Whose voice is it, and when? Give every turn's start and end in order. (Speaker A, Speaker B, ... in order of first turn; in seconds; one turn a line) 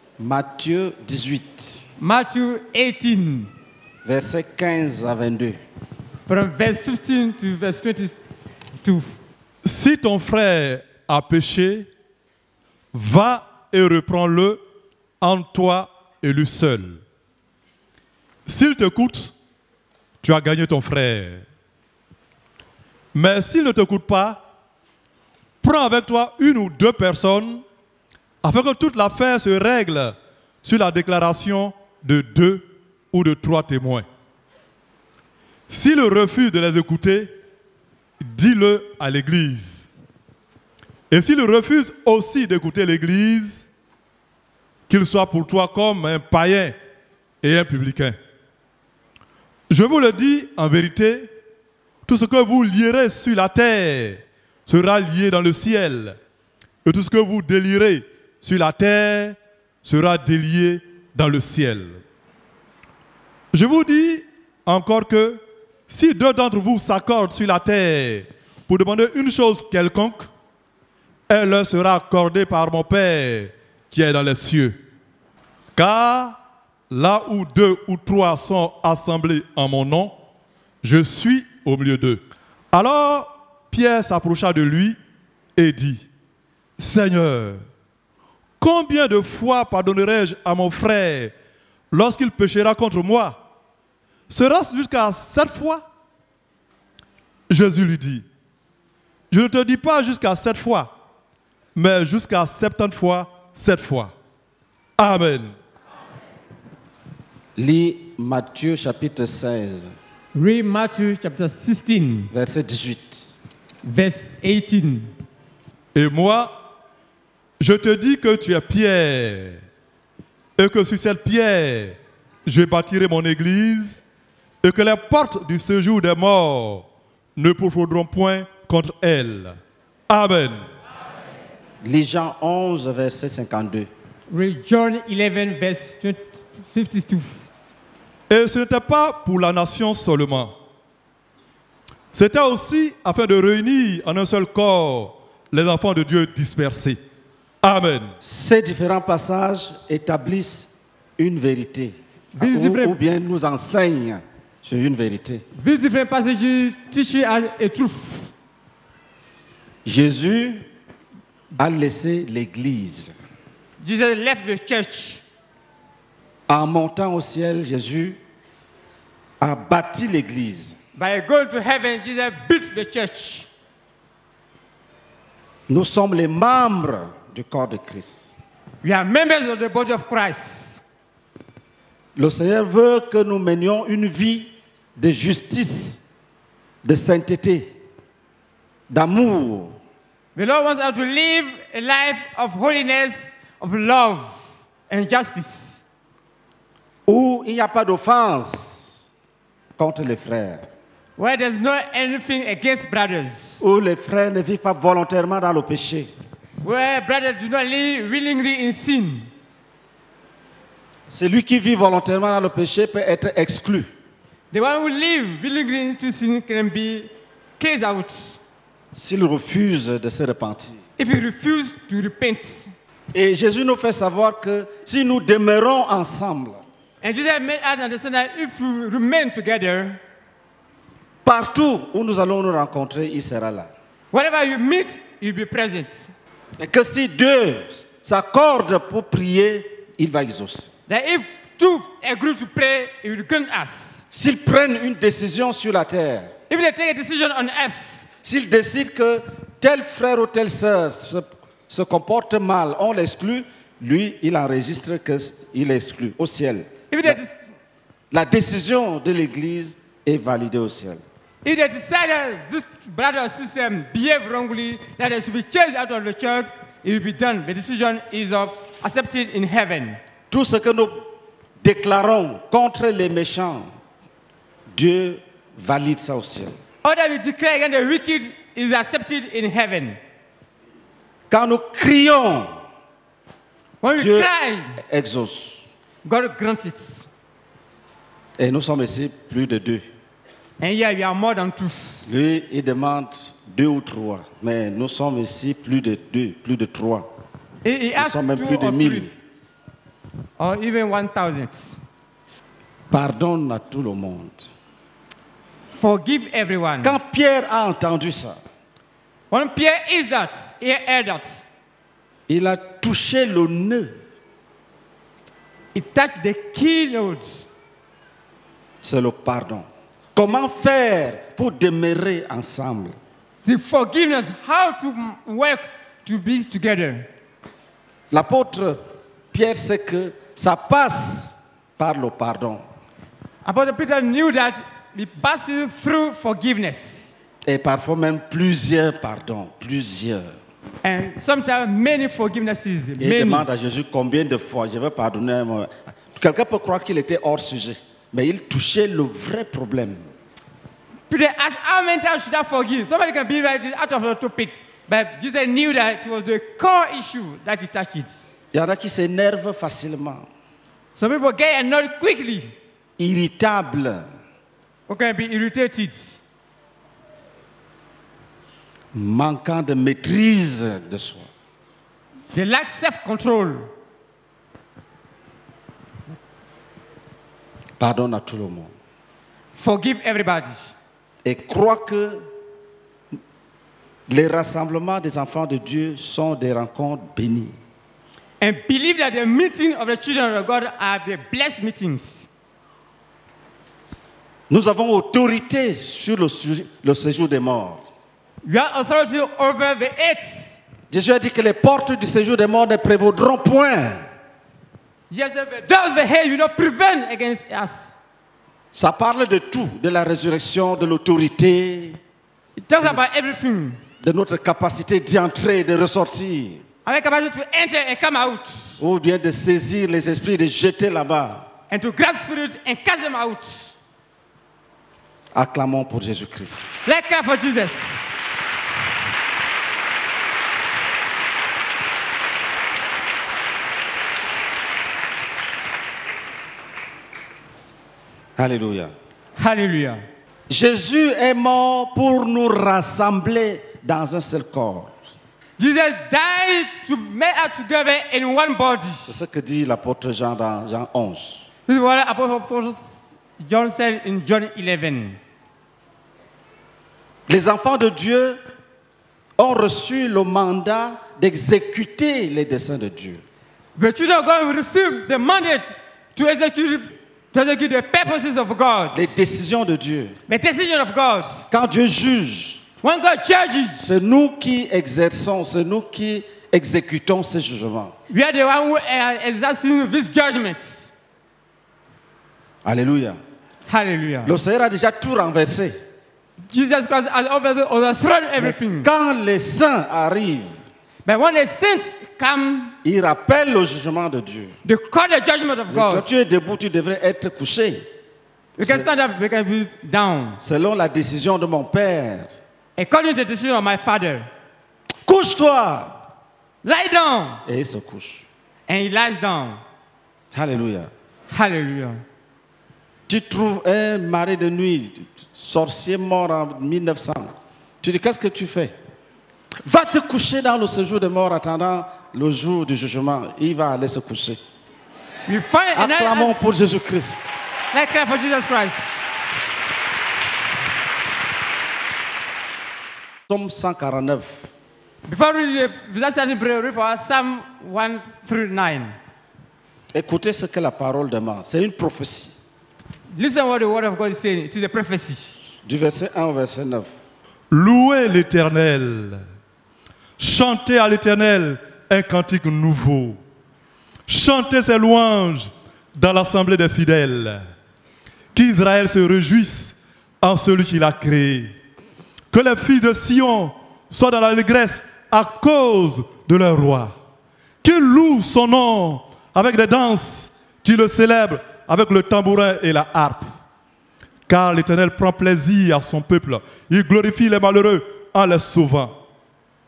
Speaker A: 0.2-1.8
Speaker B: 2.0-3.5
Speaker A: 4.0-5.6
Speaker B: 6.3-9.2
Speaker C: 9.6-11.9
Speaker C: 12.9-14.6
Speaker C: 15.2-17.0
Speaker C: 18.4-19.3
Speaker C: 20.2-21.4
Speaker C: 23.1-24.4
Speaker C: 25.6-27.6
Speaker C: 28.4-34.0
Speaker C: 35.7-37.3
Speaker C: 38.2-39.9
Speaker C: 41.1-43.7
Speaker C: 44.9-46.8
Speaker C: 47.4-48.2
Speaker C: 49.7-51.3
Speaker C: 52.0-56.2
Speaker C: 56.8-62.0
Speaker C: 63.5-70.3
Speaker C: 71.3-74.8
Speaker C: 75.8-76.3
Speaker C: 76.9-80.1
Speaker C: 80.8-85.0
Speaker C: 85.6-86.0
Speaker C: 86.8-87.6
Speaker C: 88.6-91.3
Speaker C: 91.9-93.4
Speaker C: 94.3-95.8
Speaker C: 97.5-98.2
Speaker C: 99.3-100.9
Speaker C: 101.8-104.1
Speaker C: 105.0-105.5
Speaker A: 107.6-109.9
Speaker B: 110.3-112.3
Speaker A: 112.3-113.2
Speaker B: 113.8-115.1
Speaker C: 115.9-116.5
Speaker C: 117.6-119.6
Speaker C: 120.6-124.0
Speaker C: 124.6-126.8
Speaker C: 127.3-129.6
Speaker C: 130.1-130.6
Speaker A: 131.8-133.9
Speaker B: 134.3-137.4
Speaker C: 138.3-140.5
Speaker C: 142.1-147.0
Speaker C: 147.6-148.1
Speaker A: 148.2-155.4
Speaker B: 152.3-153.0
Speaker B: 155.6-158.3
Speaker A: 159.8-160.7
Speaker A: 161.6-163.2
Speaker B: 163.8-165.2
Speaker A: 166.5-168.2
Speaker A: 169.4-170.8
Speaker B: 170.9-173.5
Speaker A: 175.7-178.3
Speaker B: 178.8-180.8
Speaker A: 182.2-186.0
Speaker A: 186.8-187.7
Speaker A: 188.9-189.8
Speaker B: 190.3-194.3
Speaker B: 194.9-195.8
Speaker A: 197.1-199.0
Speaker A: 199.8-200.7
Speaker B: 201.2-203.6
Speaker A: 203.6-206.1
Speaker B: 206.6-209.3
Speaker A: 211.1-213.9
Speaker B: 214.5-218.4
Speaker A: 218.9-220.8
Speaker B: 221.0-222.7
Speaker A: 223.1-226.6
Speaker B: 227.0-230.0
Speaker A: 231.2-233.7
Speaker B: 234.1-236.1
Speaker A: 236.6-240.7
Speaker B: 240.9-244.0
Speaker A: 244.1-246.3
Speaker B: 246.5-248.0
Speaker A: 248.2-257.2
Speaker B: 256.9-257.3
Speaker A: 258.1-261.0
Speaker B: 261.4-270.0
Speaker A: 270.3-271.1
Speaker A: 271.6-273.7
Speaker A: 274.7-276.6
Speaker B: 276.8-280.0
Speaker A: 281.3-282.5
Speaker B: 283.8-284.8
Speaker A: 284.0-284.3
Speaker A: 284.8-285.6
Speaker B: 286.1-287.1
Speaker A: 288.4-289.9
Speaker B: 290.6-292.0
Speaker A: 292.1-297.1
Speaker B: 297.6-299.1
Speaker A: 298.0-299.1
Speaker B: 300.4-301.7
Speaker A: 302.9-304.5
Speaker B: 305.8-307.0
Speaker A: 306.8-308.4
Speaker B: 309.3-311.4
Speaker A: 312.3-313.9
Speaker B: 315.7-317.5
Speaker A: 318.8-323.0
Speaker B: 323.4-327.1
Speaker A: 328.1-332.6
Speaker B: 333.4-337.1
Speaker A: 337.4-340.3
Speaker B: 340.8-343.4
Speaker A: 343.0-350.1
Speaker B: 351.1-358.2
Speaker A: 358.5-360.2
Speaker B: 360.9-362.5
Speaker A: 363.0-364.1
Speaker B: 364.9-366.2
Speaker A: 368.9-371.3
Speaker B: 372.3-373.7
Speaker A: 377.8-378.7
Speaker B: 379.5-380.7
Speaker A: 381.2-382.2
Speaker A: 384.1-387.6
Speaker B: 388.4-392.3
Speaker A: 394.5-397.8
Speaker B: 398.4-400.5
Speaker A: 400.9-404.0
Speaker B: 405.1-407.9
Speaker A: 408.7-412.0
Speaker B: 412.6-413.8
Speaker A: 414.0-416.6
Speaker B: 416.8-418.8
Speaker A: 418.8-421.4
Speaker B: 421.7-423.7
Speaker A: 425.3-426.7
Speaker B: 426.9-428.1
Speaker A: 438.4-438.9
Speaker B: 439.4-440.0
Speaker A: 440.5-444.9
Speaker B: 445.6-449.1
Speaker A: 449.1-451.4
Speaker B: 451.7-455.2
Speaker A: 457.3-458.4
Speaker A: 459.4-463.2
Speaker B: 463.8-469.1
Speaker A: 468.9-470.1
Speaker B: 470.3-471.4
Speaker A: 471.5-472.6
Speaker B: 472.8-474.0
Speaker A: 473.8-477.9
Speaker B: 478.1-480.9
Speaker A: 482.6-483.2
Speaker B: 483.7-484.3
Speaker A: 484.2-485.8
Speaker B: 486.5-488.9
Speaker A: 488.4-490.5
Speaker B: 491.1-492.7
Speaker A: 492.8-494.5
Speaker B: 494.6-496.1
Speaker A: 495.7-497.8
Speaker B: 498.6-500.4
Speaker A: 498.6-498.9
Speaker A: 500.4-502.4
Speaker B: 502.8-504.3
Speaker A: 505.1-505.9
Speaker B: 506.6-507.4
Speaker A: 507.4-508.2
Speaker B: 508.7-509.6
Speaker A: 510.3-510.9
Speaker B: 511.3-512.0
Speaker A: 513.1-518.7
Speaker A: 519.6-524.4
Speaker B: 525.3-526.5
Speaker A: 525.7-527.2
Speaker B: 527.7-529.0
Speaker A: 533.3-534.5
Speaker B: 535.1-539.0
Speaker A: 539.9-542.4
Speaker B: 543.1-545.4
Speaker A: 545.6-546.9
Speaker C: 547.5-549.2
Speaker C: 550.2-553.2
Speaker C: 554.1-557.4
Speaker C: 558.3-561.5
Speaker C: 562.3-566.9
Speaker C: 567.6-573.3
Speaker C: 574.3-578.9